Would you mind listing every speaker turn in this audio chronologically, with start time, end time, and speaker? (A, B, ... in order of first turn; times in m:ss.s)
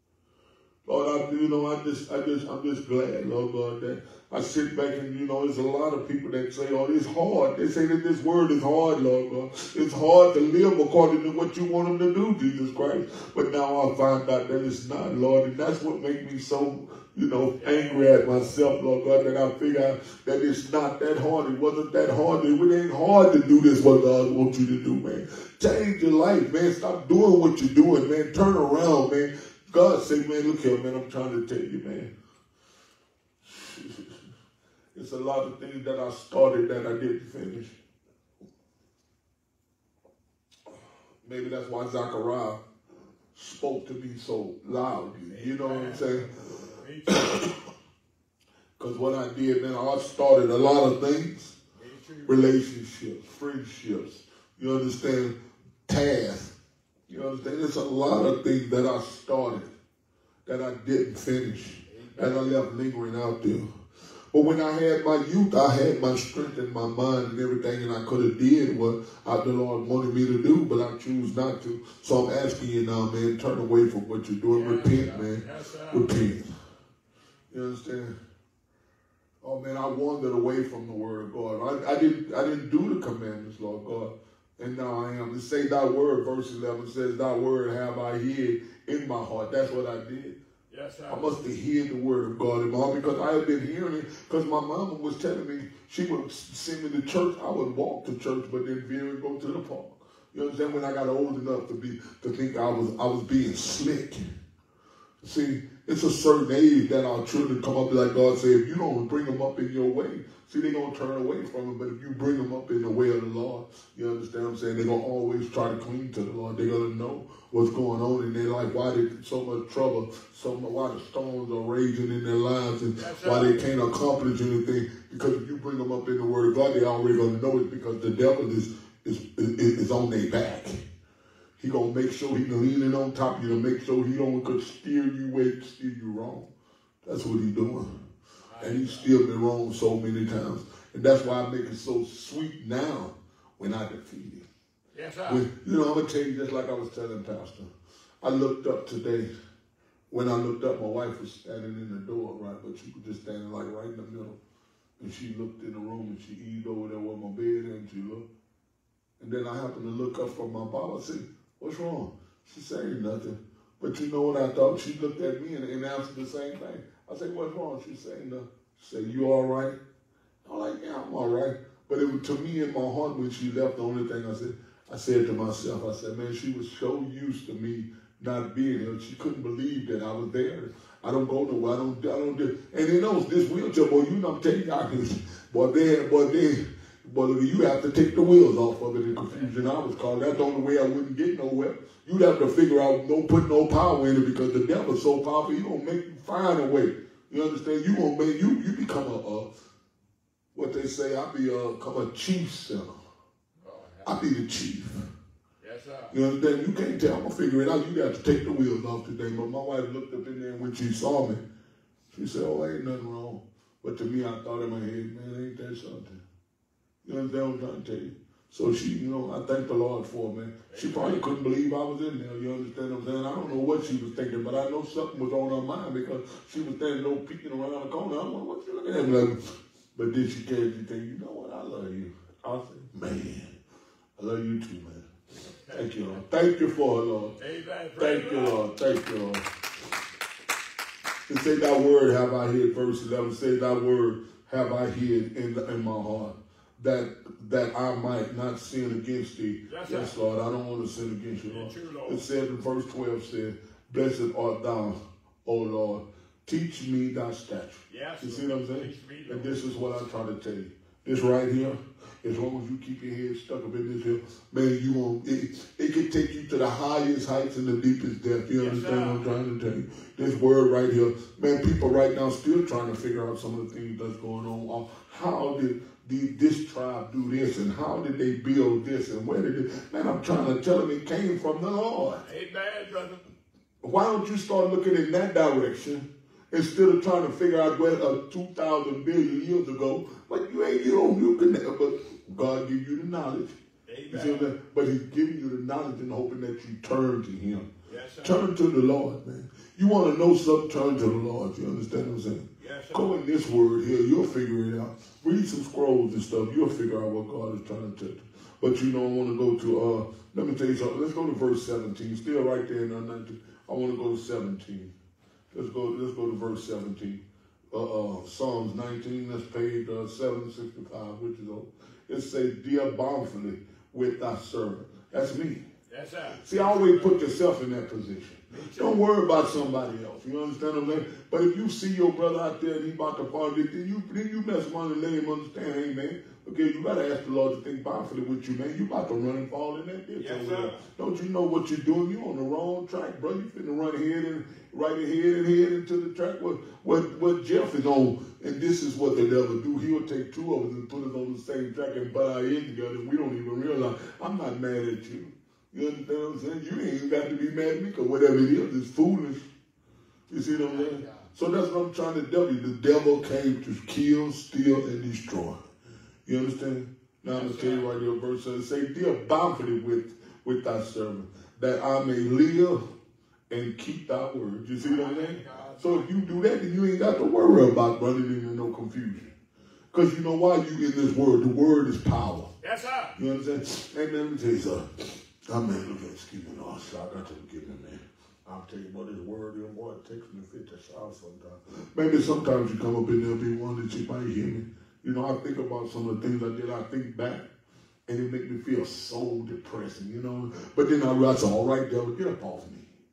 0:00.9-0:32.1 A
0:17.6-0:18.6 B
0:33.4-0:34.3 A
0:34.9-0:37.8 A
0:41.2-0:42.6 A
0:43.3-0:47.6 A
0:45.3-0:47.4 B
0:48.8-0:51.6 A
0:51.8-0:52.5 B
0:52.2-0:55.3 A
0:55.9-0:56.6 A
0:57.1-0:59.7 A
1:00.4-1:03.6 A
1:01.9-1:02.5 B
1:04.3-1:16.5 A
1:14.5-1:16.4 B
1:17.5-1:18.1 A
1:19.4-1:30.4 A
1:30.7-1:31.4 B
1:31.1-1:44.2 A
1:45.2-2:10.8 A
2:02.9-2:03.7 B
2:11.6-2:16.5 A
2:17.0-2:17.9 A
2:18.5-2:19.1 B
2:18.6-2:24.5 A
2:24.9-2:25.4 B
2:25.3-2:27.7 A
2:28.2-2:29.3 A
2:30.1-2:34.4 A
2:35.0-2:38.3 A
2:39.2-2:49.8 A
2:50.4-3:19.5 A
3:09.1-3:10.0 B
3:20.6-3:22.9 A
3:23.6-3:24.2 B
3:24.0-3:25.1 A
3:25.6-3:26.1 B
3:26.1-3:31.4 A
3:32.1-3:36.2 A
3:37.0-3:53.6 A
3:40.7-3:41.3 B
3:54.2-3:55.1 A
3:55.7-3:55.9 B
3:55.7-3:57.4 A
3:57.4-3:58.7 B
3:58.0-3:59.4 A
4:01.3-4:42.2 A
4:09.7-4:10.2 B
4:11.4-4:12.2 B
4:17.9-4:19.6 B
4:28.6-4:29.4 B
4:42.2-4:43.2 B
4:43.8-4:53.6 A
4:53.9-4:54.5 B
4:54.1-4:57.7 A
4:57.9-4:58.5 B
4:58.2-5:14.9 A
5:02.6-5:03.2 B
5:15.5-5:25.6 A
5:25.9-5:27.3 B
5:26.4-5:59.5 A
5:28.5-5:29.0 B
5:40.2-5:40.8 B
6:00.3-6:05.6 A
6:00.5-6:01.2 B
6:06.2-6:12.8 A
6:07.3-6:08.0 B
6:13.5-6:19.3 A
6:14.8-6:16.3 B
6:19.9-6:22.5 A
6:22.6-6:23.2 B
6:23.2-6:37.5 A
6:38.1-6:42.9 A